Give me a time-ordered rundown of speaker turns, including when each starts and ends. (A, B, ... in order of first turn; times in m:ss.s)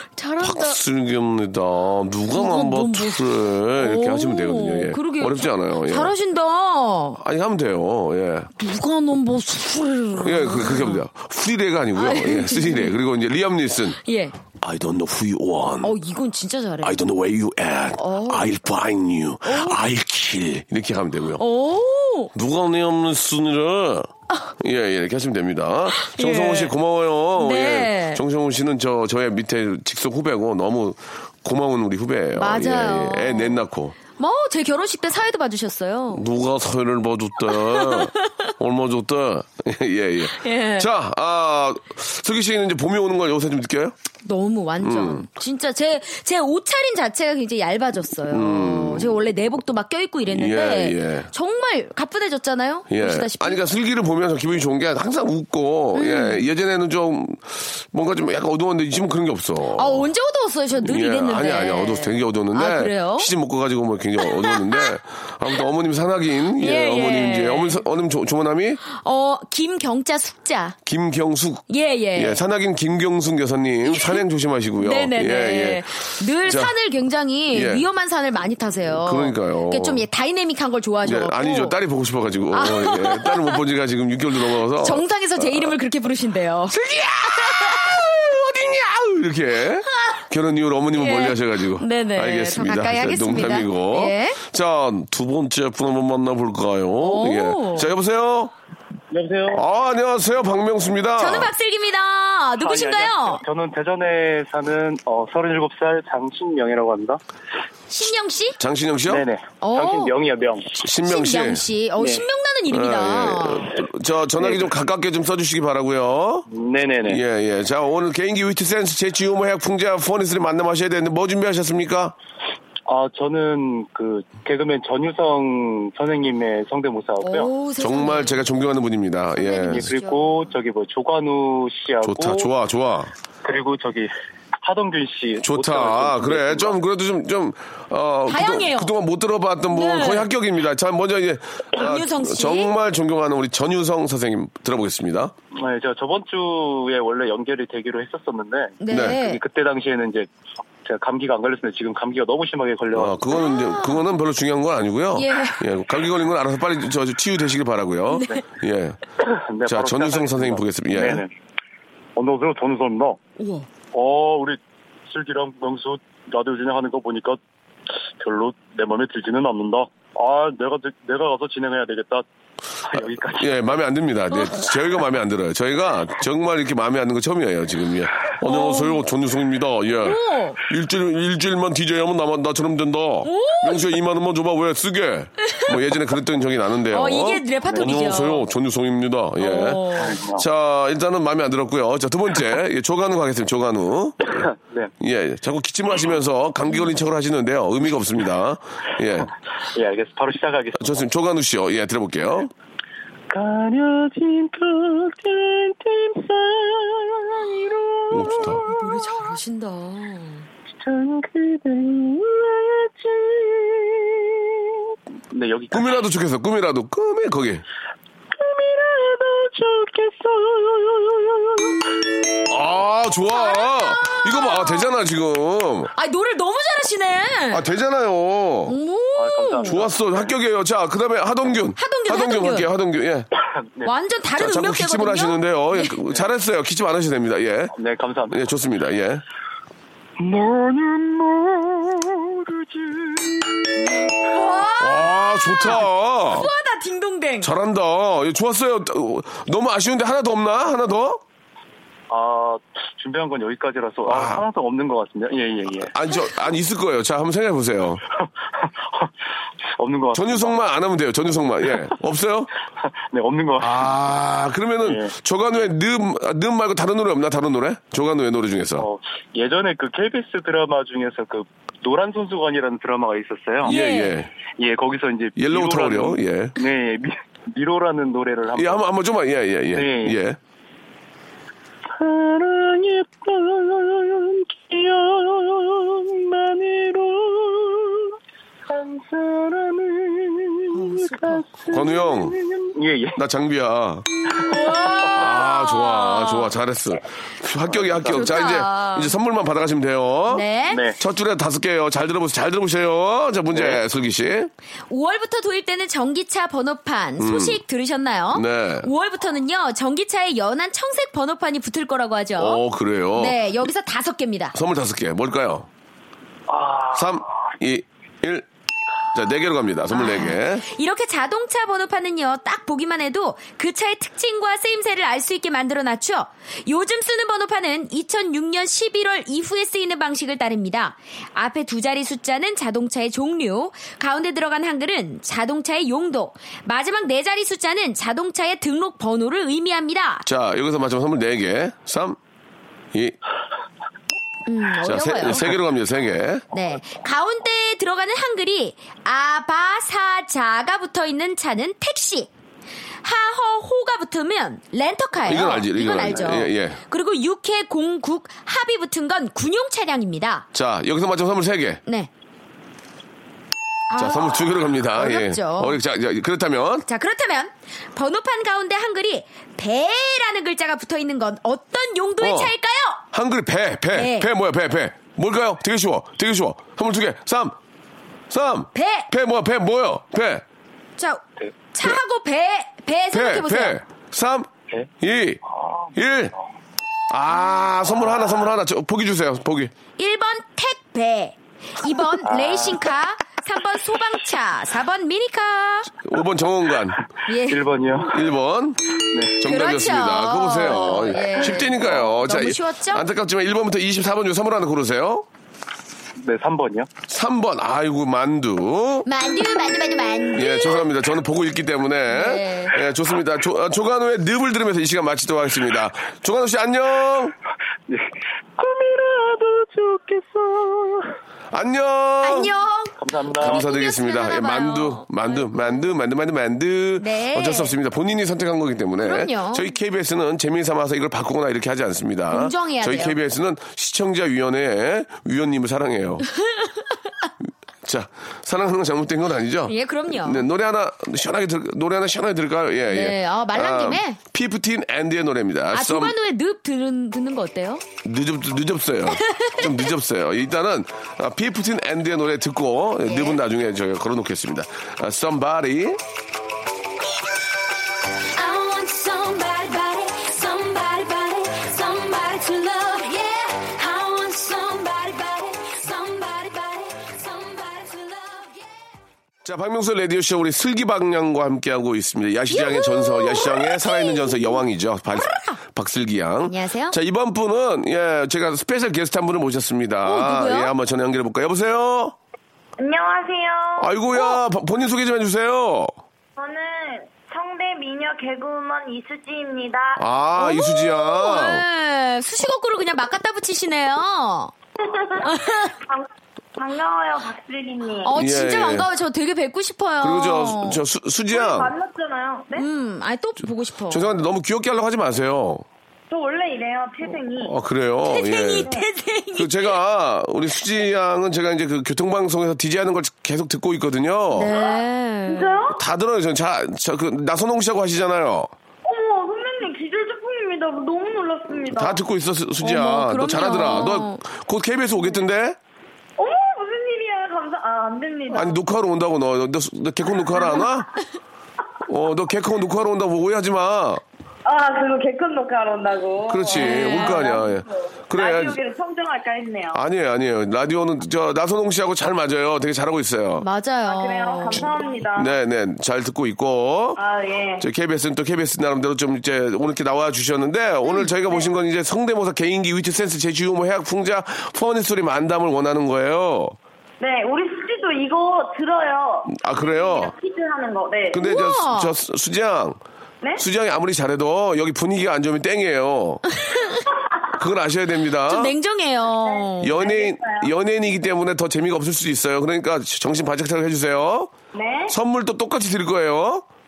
0:00.2-0:00.8 A
0:00.4-0:06.1 B
0:02.3-0:07.2 A
0:07.2-0:08.5 B
0:08.6-0:11.0 A
0:10.2-0:14.0 B
0:11.9-0:12.9 A
0:14.0-0:14.4 A
0:14.5-0:16.0 B
0:15.8-0:17.0 A
0:16.8-0:21.4 B
0:18.0-0:18.5 A
0:19.4-0:19.8 A
0:21.4-0:22.3 A
0:22.3-0:34.0 B
0:25.9-0:26.7 A
0:27.4-0:28.2 A
0:32.3-0:36.2 A
0:36.1-0:44.0 B
0:37.5-0:38.1 A
0:40.3-0:40.9 A
0:44.2-0:53.6 A
0:44.8-0:45.2 B
0:48.3-0:49.2 B
0:50.3-0:51.3 B
0:52.9-1:00.1 B
0:55.9-0:56.4 A
0:59.7-1:03.3 A
1:00.8-1:08.8 B
1:04.2-1:04.9 A
1:06.6-1:07.8 A
1:08.8-1:10.8 A
1:10.8-1:16.7 B
1:11.7-1:12.4 A
1:13.8-1:14.2 A
1:14.8-1:21.8 A
1:17.5-1:17.8 B
1:19.0-1:20.1 B
1:21.0-1:25.7 B
1:22.5-1:23.6 A
1:24.6-1:26.8 A
1:26.7-1:38.5 B
1:27.4-1:27.8 A
1:31.0-1:34.4 A
1:37.0-1:37.9 A
1:39.1-1:39.6 C
1:39.5-1:41.5 B
1:41.2-1:43.4 A
1:42.6-1:47.2 C
1:47.9-1:48.6 A
1:48.6-1:49.2 B
1:49.1-1:50.8 C
1:49.6-1:50.1 A
1:50.8-1:51.7 B
1:51.0-1:53.7 A
1:52.0-1:52.2 C
1:52.7-1:56.5 B
1:54.4-1:54.7 C
1:56.5-1:57.2 C
1:57.0-2:02.2 B
2:02.8-2:07.5 C
2:07.2-2:08.4 A
2:07.8-2:09.9 B
2:09.3-2:10.5 A
2:09.7-2:12.5 C
2:12.0-2:13.1 B
2:13.4-2:16.8 C
2:15.4-2:25.3 B
2:18.3-2:18.9 A
2:19.7-2:20.3 A
2:21.7-2:22.7 A
2:25.6-2:30.3 C
2:28.8-2:29.4 A
2:28.9-2:29.2 B
2:30.8-2:33.2 C
2:32.9-2:39.0 B
2:33.3-2:34.0 A
2:35.1-2:35.6 A
2:38.1-2:38.4 A
2:39.2-2:41.3 C
2:39.6-2:41.2 B
2:42.2-2:43.2 C
2:43.4-2:43.7 A
2:43.9-2:47.4 C
2:48.2-2:52.2 C
2:52.9-2:53.4 C
2:52.9-3:14.4 B
2:58.4-2:59.1 A
3:00.0-3:00.6 A
3:03.2-3:03.9 A
3:06.9-3:08.4 A
3:09.4-3:10.2 A
3:10.0-3:10.4 C
3:14.3-3:14.9 C
3:15.0-3:19.3 B
3:19.7-3:21.0 C
3:20.8-3:22.5 B
3:23.3-3:29.3 C
3:28.1-3:28.6 B
3:28.6-3:30.4 A
3:30.8-3:36.0 C
3:35.7-3:37.6 B
3:38.3-3:41.9 C
3:42.5-3:45.9 B
3:43.3-3:45.0 A
3:45.9-3:47.6 A
3:47.5-3:48.8 B
3:48.7-3:49.8 A
3:49.2-3:50.0 C
3:49.6-3:53.3 B
3:51.8-3:52.7 A
3:53.4-3:53.9 C
3:53.8-3:56.0 A
3:54.4-3:57.7 B
3:57.7-3:58.4 C
3:58.3-3:59.2 B
4:00.2-4:03.6 C
4:03.8-4:07.5 A
4:04.8-4:06.5 B
4:07.4-4:11.2 B
4:12.1-4:15.9 C
4:14.1-4:14.4 B
4:15.9-4:18.0 B
4:18.6-4:19.1 C
4:19.8-4:20.5 C
4:20.1-4:22.5 B
4:23.1-4:23.9 C
4:23.6-4:28.9 B
4:24.8-4:25.1 C
4:28.8-4:33.7 C
4:33.6-4:34.3 B
4:33.6-4:34.1 A
4:34.5-4:38.8 C
4:35.4-4:36.6 B
4:38.5-4:40.4 B
4:39.7-4:40.2 C
4:42.0-4:48.1 C
4:48.7-4:53.2 C
4:50.7-4:51.4 A
4:51.7-4:52.3 B
4:53.2-4:54.1 B
4:54.3-4:54.9 C
4:54.4-4:56.5 A
4:55.1-5:04.5 B
4:57.7-4:58.6 C
4:58.0-4:59.1 A
5:00.3-5:00.8 A
5:00.7-5:01.0 C
5:03.5-5:03.8 C
5:04.9-5:14.5 A
5:07.2-5:07.6 B
5:08.3-5:08.9 B
5:12.4-5:13.4 B
5:14.5-5:15.7 B
5:16.5-5:17.0 C
5:16.9-5:18.5 B
5:19.1-5:20.6 B
5:19.9-5:40.2 A
5:40.2-5:42.2 B
5:44.5-5:45.6 A
5:44.8-5:46.4 B
5:46.5-5:52.3 A
5:53.0-6:00.5 A
5:55.2-5:56.8 B
6:00.5-6:01.8 B
6:03.9-6:05.8 A
6:04.0-6:06.9 B
6:06.9-6:13.0 A
6:12.2-6:12.5 B
6:13.1-6:17.6 B
6:13.9-6:14.3 A
6:18.3-6:20.4 B
6:18.7-6:19.1 A
6:21.7-6:23.8 A
6:23.1-6:25.4 B
6:25.5-6:25.9 C
6:25.9-6:26.3 B
6:27.1-6:29.7 B
6:30.0-6:35.9 A
6:32.2-6:32.8 C
6:36.0-6:37.0 B
6:37.3-6:37.7 A
6:37.4-6:38.2 C
6:38.1-6:45.2 B
6:39.1-6:39.4 C
6:39.4-6:43.1 A
6:41.5-6:41.7 C
6:46.2-6:46.9 C
6:47.1-6:49.1 B
6:49.0-6:50.9 A
6:50.3-6:57.3 B
6:52.1-6:52.8 A
6:57.9-7:01.1 C
7:01.5-7:02.5 B
7:02.2-7:05.9 A
7:03.0-7:03.6 C
7:03.4-7:16.2 B
7:07.0-7:07.7 A
7:09.0-7:09.7 A
7:12.3-7:13.2 A
7:17.8-7:26.2 B
7:19.7-7:20.5 A
7:22.9-7:24.2 A
7:25.7-7:27.8 A
7:28.0-7:36.0 B
7:29.1-7:29.6 A
7:33.0-7:33.4 A
7:38.3-7:48.7 A
7:49.4-8:02.2 B
7:52.5-7:55.6 A
7:56.4-7:57.0 A
8:00.0-8:00.7 A
8:02.8-8:04.0 D
8:03.8-8:05.9 B
8:06.4-8:10.0 D
8:10.0-8:11.6 B
8:10.4-8:14.5 A
8:14.9-8:16.0 D
8:15.2-8:15.7 A
8:16.6-8:18.1 D
8:18.0-8:20.8 A
8:18.1-8:18.9 B
8:20.0-8:21.7 B
8:21.3-8:22.7 D
8:22.5-8:24.1 A
8:23.9-8:25.6 B
8:26.1-8:27.5 D
8:27.4-8:28.7 B
8:28.0-8:29.8 A
8:29.3-8:34.5 B
8:34.3-8:35.6 A
8:35.3-8:35.8 D
8:35.7-8:38.5 B
8:38.8-8:42.0 D
8:41.6-8:45.6 B
8:42.6-8:44.2 A
8:46.2-8:48.7 D
8:48.3-8:50.9 B
8:51.8-8:54.0 B
8:54.4-8:59.8 D
8:56.3-8:58.6 B
8:56.5-8:57.4 A
8:59.7-9:03.4 B
9:03.4-9:04.7 A
9:03.8-9:05.3 D
9:04.5-9:07.0 B
9:07.0-9:07.7 D
9:07.6-9:16.6 B
9:17.0-9:21.2 D
9:19.3-9:20.1 B
9:21.1-9:22.8 B
9:21.2-9:21.9 A
9:23.4-9:26.2 B
9:26.5-9:26.8 A
9:27.3-9:28.6 B
9:28.3-9:29.9 A
9:29.2-9:30.5 D
9:29.6-9:34.3 B
9:34.5-9:35.0 D
9:34.9-9:36.4 B